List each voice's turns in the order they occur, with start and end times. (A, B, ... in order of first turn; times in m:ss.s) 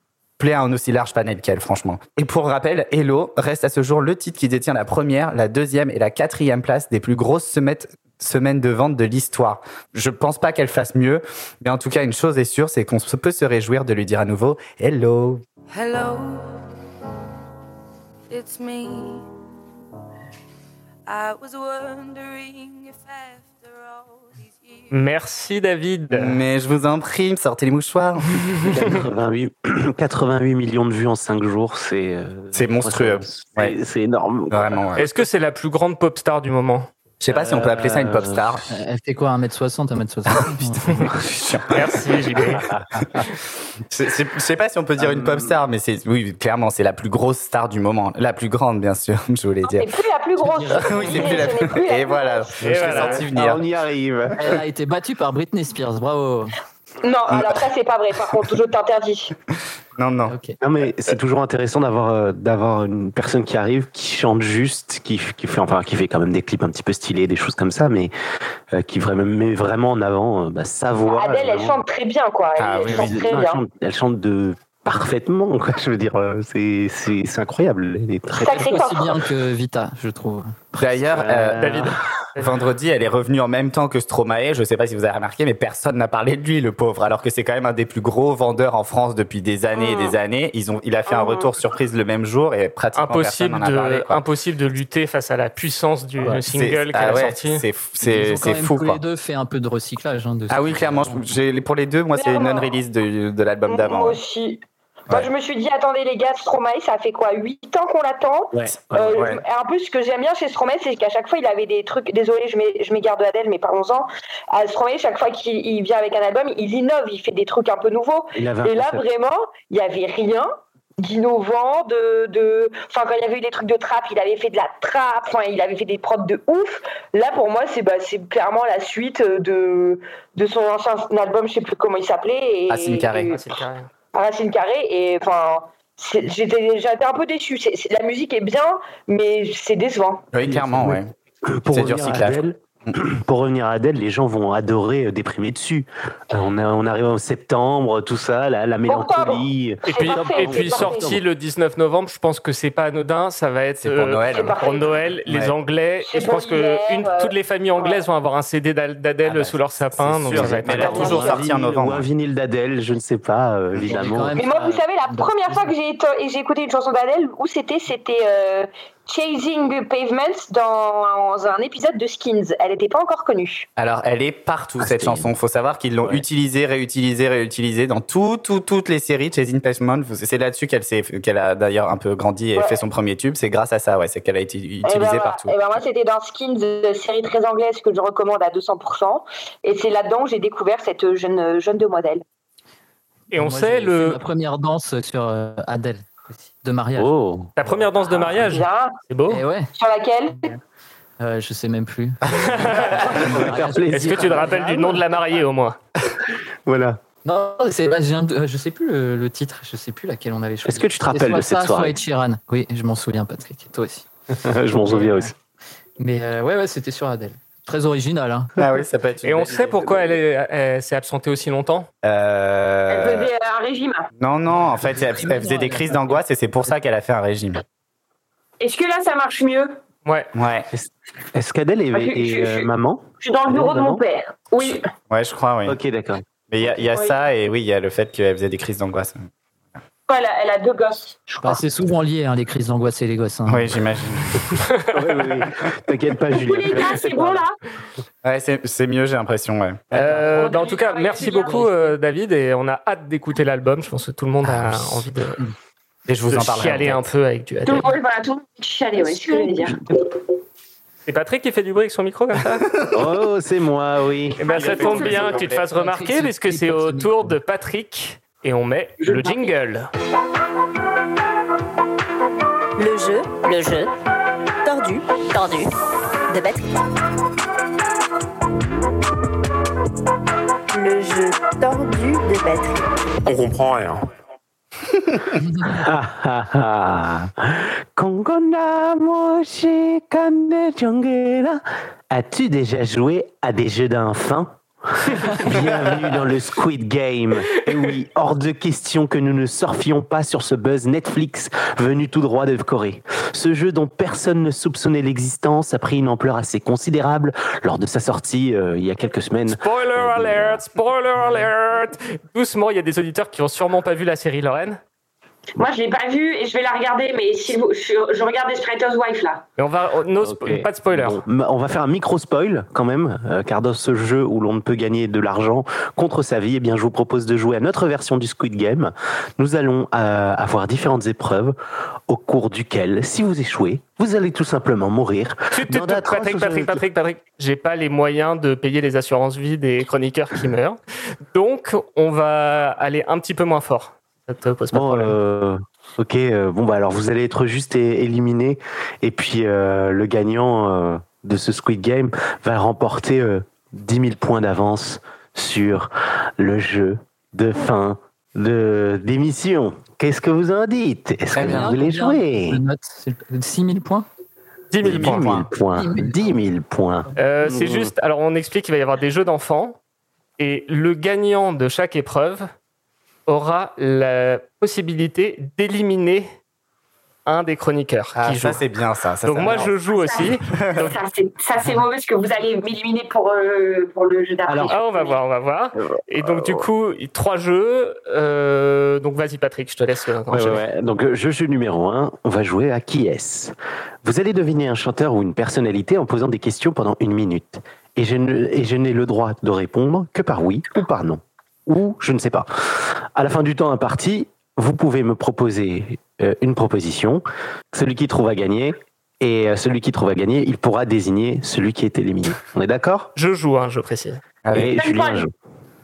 0:00.4-0:15.4 A
0:15.7-0:16.7 B
0:18.3-0:19.3 B
0:21.1-0:25.2 B
0:24.9-0:26.4 C
0:26.1-0:28.9 A
0:28.6-0:34.7 D
0:32.5-0:33.8 A
0:34.5-0:35.1 A
0:35.0-0:36.9 C
0:37.2-0:38.7 A
0:37.4-0:38.4 D
0:38.7-0:41.1 E
0:40.5-0:42.7 A
0:41.7-0:42.6 C
0:42.4-0:43.0 D
0:43.9-0:49.9 A
0:45.0-0:45.5 D
0:49.6-0:52.5 F
0:50.4-0:51.3 E
0:50.7-0:53.6 A
0:52.6-0:53.3 C
0:52.7-0:54.6 D
0:54.4-0:56.5 E
0:57.0-0:59.3 F
1:00.0-1:00.4 A
1:00.3-1:00.6 E
1:00.6-1:08.1 D
1:08.7-1:11.8 D
1:11.1-1:13.6 F
1:12.6-1:13.4 A
1:12.9-1:18.8 D
1:18.4-1:19.2 F
1:18.4-1:21.1 E
1:20.8-1:21.8 A
1:21.1-1:22.0 D
1:21.6-1:22.6 C
1:22.4-1:34.2 A
1:33.0-1:37.6 C
1:36.3-1:39.0 A
1:38.0-1:41.2 E
1:40.5-1:44.2 A
1:42.2-1:42.7 F
1:43.7-2:13.4 F
1:48.5-1:49.3 D
1:49.1-1:49.4 A
1:58.4-1:59.0 D
2:12.7-2:13.4 A
2:13.3-2:13.9 C
2:14.1-2:20.3 F
2:20.3-2:21.1 A
2:20.5-2:31.2 D
2:21.7-2:22.4 A
2:28.9-2:31.1 F
2:29.9-2:41.2 C
2:33.8-2:34.6 A
2:34.3-2:35.1 F
2:35.3-2:35.6 A
2:36.1-2:38.0 F
2:39.2-2:42.1 A
2:40.3-2:44.4 D
2:40.7-2:41.4 F
2:43.9-2:45.7 E
2:44.4-2:53.7 F
2:53.8-3:05.6 A
2:54.8-2:55.2 D
3:04.8-3:12.2 F
3:13.3-3:14.2 C
3:13.3-3:17.1 E
3:17.0-3:17.5 D
3:17.6-3:19.4 C
3:18.5-3:19.0 F
3:19.3-3:19.7 E
3:19.7-3:20.5 F
3:21.2-3:24.9 E
3:22.6-3:23.0 C
3:22.8-3:24.9 D
3:23.9-3:25.8 C
3:26.7-3:27.0 D
3:27.2-3:34.1 E
3:30.6-3:32.0 D
3:34.3-3:35.3 D
3:34.8-3:35.3 E
3:36.0-3:38.5 E
3:38.6-3:39.8 A
3:39.2-3:41.9 C
3:42.0-3:43.3 A
3:42.9-3:44.1 F
3:44.2-3:47.6 A
3:44.8-3:46.2 E
3:48.6-3:49.8 F
3:50.0-3:50.3 C
3:50.3-3:50.7 A
3:50.7-3:54.0 D
3:51.9-3:54.8 F
3:54.6-3:55.8 A
3:55.7-3:56.8 D
3:56.5-3:59.3 A
4:00.1-4:01.2 F
4:01.3-4:03.7 E
4:03.5-4:04.4 A
4:04.9-4:07.5 D
4:06.3-4:07.5 F
4:08.2-4:10.0 A
4:09.9-4:15.4 C
4:10.0-4:10.2 D
4:10.2-4:11.8 F
4:16.1-4:17.1 A
4:16.3-4:17.9 C
4:17.7-4:19.8 F
4:21.1-4:22.7 C
4:22.9-4:24.4 D
4:24.4-4:25.7 A
4:24.4-4:29.9 C
4:24.9-4:27.4 E
4:29.0-4:29.6 F
4:32.8-4:33.9 G
4:34.6-4:35.7 G
4:36.3-4:36.8 G
4:40.7-4:42.9 G
4:45.6-5:10.6 D
5:09.5-5:14.8 C
5:15.6-5:19.4 F
5:19.6-5:21.2 C
5:20.2-5:31.6 D
5:32.1-5:36.8 D
5:35.5-5:40.8 C
5:41.3-5:45.2 C
5:44.7-6:02.6 D
6:01.4-6:04.1 E
6:01.4-6:01.7 A
6:04.7-6:05.2 C
6:04.8-6:07.9 D
6:04.8-6:05.5 A
6:05.8-6:06.2 E
6:07.2-6:09.8 C
6:10.4-6:12.5 C
6:13.3-6:16.3 C
6:17.3-6:18.6 C
6:18.2-6:19.7 A
6:19.2-6:20.8 C
6:19.7-6:25.2 F
6:20.5-6:20.9 A
6:24.5-6:24.8 D
6:24.7-6:30.6 C
6:26.2-6:26.6 D
6:30.3-6:53.1 D
6:53.2-6:54.2 C
6:54.4-6:54.8 A
6:54.5-6:55.3 D
6:54.8-6:55.3 F